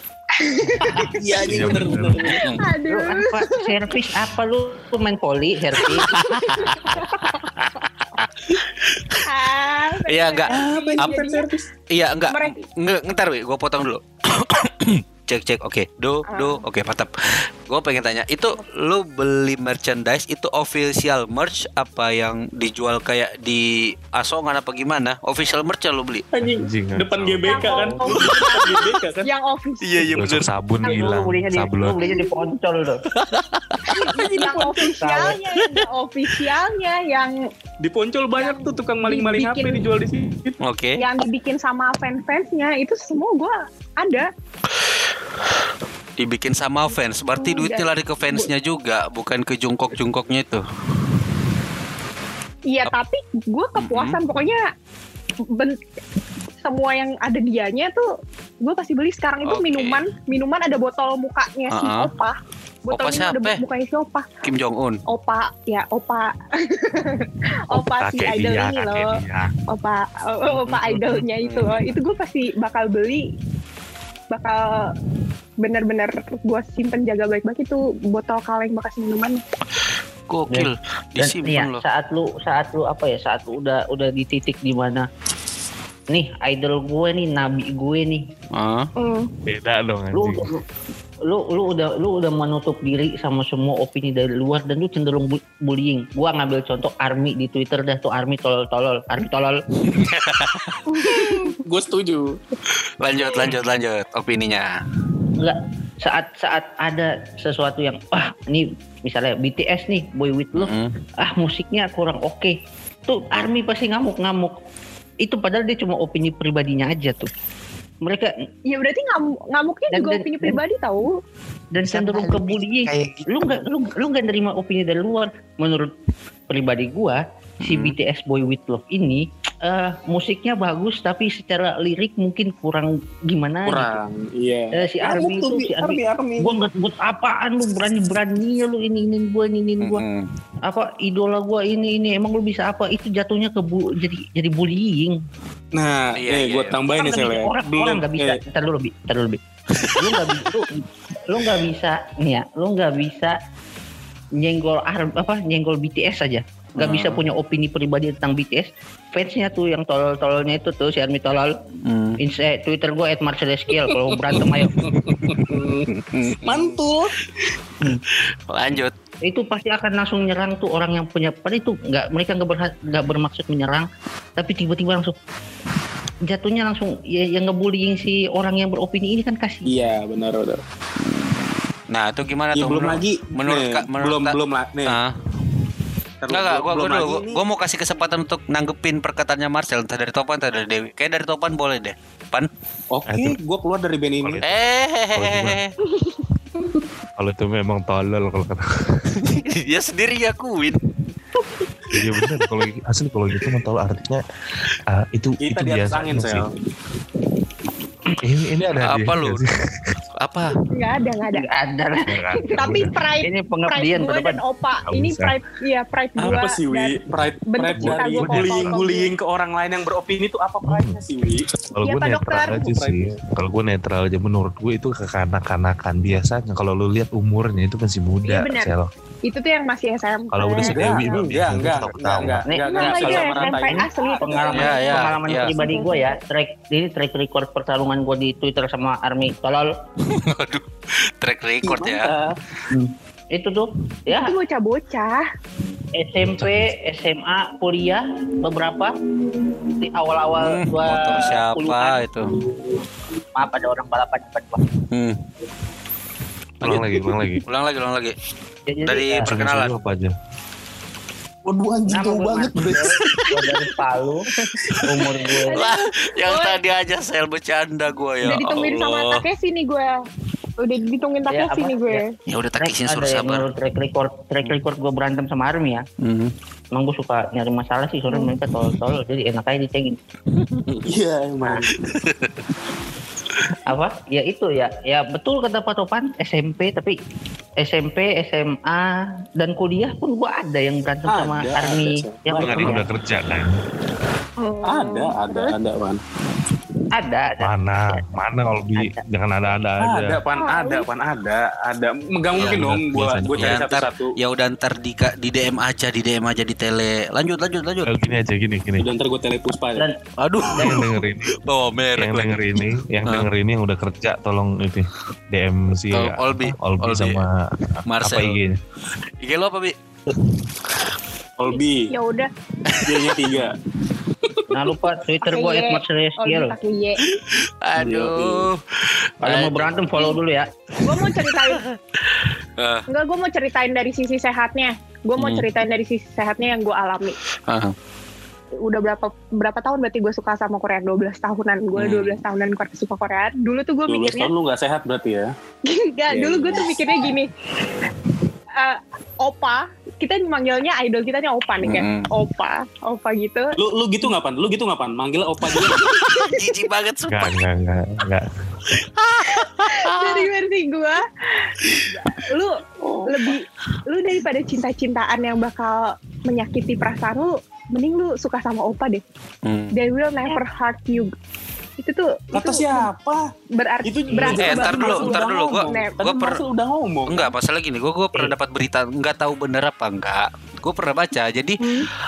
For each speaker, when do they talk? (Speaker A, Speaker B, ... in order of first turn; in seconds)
Speaker A: 0.4-1.1, 2.4-3.7, 6.5-7.3, 9.2-11.5, 12.3-12.6, 16.3-16.6, 27.4-30.1, 32.0-32.4, 33.9-37.3, 38.4-39.9, 41.0-44.3, 47.4-48.5, 52.7-54.7, 55.5-55.8, 56.6-58.1, 58.6-62.4, 62.9-64.3, 65.1-69.1, 69.7-73.3, 74.3-74.9, 75.6-79.4, 89.0-89.3, 100.9-101.5, 118.7-121.2, 210.7-211.5, 212.3-219.1, 221.8-222.6, 228.3-228.7, 229.2-231.2, 232.7-236.1, 244.1-245.2, 265.4-266.6, 268.2-269.9, 270.6-272.1, 278.1-278.3, 294.4-295.5, 300.3-300.9, 321.9-322.3, 325.2-327.0, 330.8-331.6, 332.9-337.1, 338.6-344.3, 345.6-347.3, 348.6-353.6, 355.9-356.6, 359.3-369.0, 369.7-371.1, 371.8-372.9, 373.5-376.0, 381.6-381.9
Speaker B: 0.8-2.6, 5.8-9.2, 10.1-10.6, 11.9-26.2, 29.8-30.5, 33.1-36.4, 40.6-41.0, 46.2-50.6, 53.8-54.2, 59.4-60.0, 61.7-62.1, 62.9-63.6, 64.4-65.0, 70.5-71.8, 80.3-81.8, 88.5-88.9, 99.9-100.8, 103.0-104.7, 110.5-111.0, 127.6-127.9, 139.8-140.2, 146.2-146.8, 149.8-150.4, 156.8-157.2, 161.8-162.2, 164.8-166.8, 168.5-168.9, 181.9-185.1, 186.3-192.5, 194.4-195.7, 199.2-200.8, 208.8-209.4, 210.2-210.5, 234.5-235.5, 240.1-242.1, 250.4-252.3, 254.9-255.2, 257.4-258.1, 258.8-259.8, 262.7-263.7, 264.4-269.2, 272.3-273.4, 276.0-276.3, 280.3-280.7, 281.7-282.4, 302.4-302.6, 303.4-307.9, 310.2-313.2, 315.9-317.2, 317.9-318.4, 319.2-319.7, 322.6-323.1, 327.1-328.6, 329.2-329.7, 330.8-332.9, 335.2-335.4, 337.5-337.7, 341.8-342.2, 351.6-352.1, 355.4-357.4, 358.7-360.3, 369.4-369.7, 374.2-376.4, 377.1-381.8
Speaker C: 1.0-2.4, 10.5-11.7, 26.3-29.3, 37.8-40.6, 101.0-102.4, 133.6-136.6, 145.7-148.4, 163.9-167.1, 179.6-180.6, 182.5-185.0, 186.2-187.4, 192.9-194.4, 205.4-206.5, 216.2-221.5, 222.6-223.2, 230.6-234.6, 241.6-242.4, 261.4-262.9, 280.8-281.7, 291.1-292.8, 294.6-296.0, 299.8-304.1, 308.8-309.9, 321.4-321.9, 322.8-323.5, 324.2-324.5, 327.8-328.5, 343.9-345.3, 346.1-346.7, 353.6-355.9, 362.8-363.3, 372.3-373.2, 373.8-377.3
Speaker D: 1.4-2.4, 26.6-27.8, 30.1-32.0, 67.7-69.5, 89.5-90.5, 121.8-123.7, 193.1-193.4, 194.2-194.5, 195.1-195.6, 197.2-199.1, 201.9-204.2, 204.9-206.5, 208.2-209.9, 212.1-212.9, 214.9-215.3, 217.8-218.7, 220.6-221.0, 221.7-228.9, 230.3-232.4, 246.2-246.7, 256.6-257.4, 259.2-260.1, 292.4-293.6, 297.4-300.2, 302.4-303.6, 307.9-308.9, 310.5-311.4, 312.0-317.3, 318.0-318.6, 357.1-358.3
Speaker E: 2.9-6.1, 30.8-33.0, 35.0-35.4, 80.5-85.1, 86.1-88.2, 90.1-90.6, 91.2-99.6, 105.4-114.5, 115.2-117.3, 118.0-118.3, 119.9-120.6, 121.7-125.9, 126.5-133.9, 134.8-140.0, 140.7-145.2, 146.9-149.4, 150.0-153.3, 154.4-161.6, 162.2-164.8, 169.2-173.8, 174.4-175.1, 176.3-179.8, 211.3-212.1, 213.2-214.4, 232.5-239.7, 242.7-244.3, 245.9-248.9, 249.8-252.0, 253.3-254.6, 258.7-259.3, 261.9-264.2, 264.9-265.6, 271.3-272.0, 272.6-275.8, 276.7-280.0, 283.6-286.9, 287.6-292.8, 296.9-298.0, 298.8-299.0, 310.5-310.8, 324.5-326.6, 329.2-330.5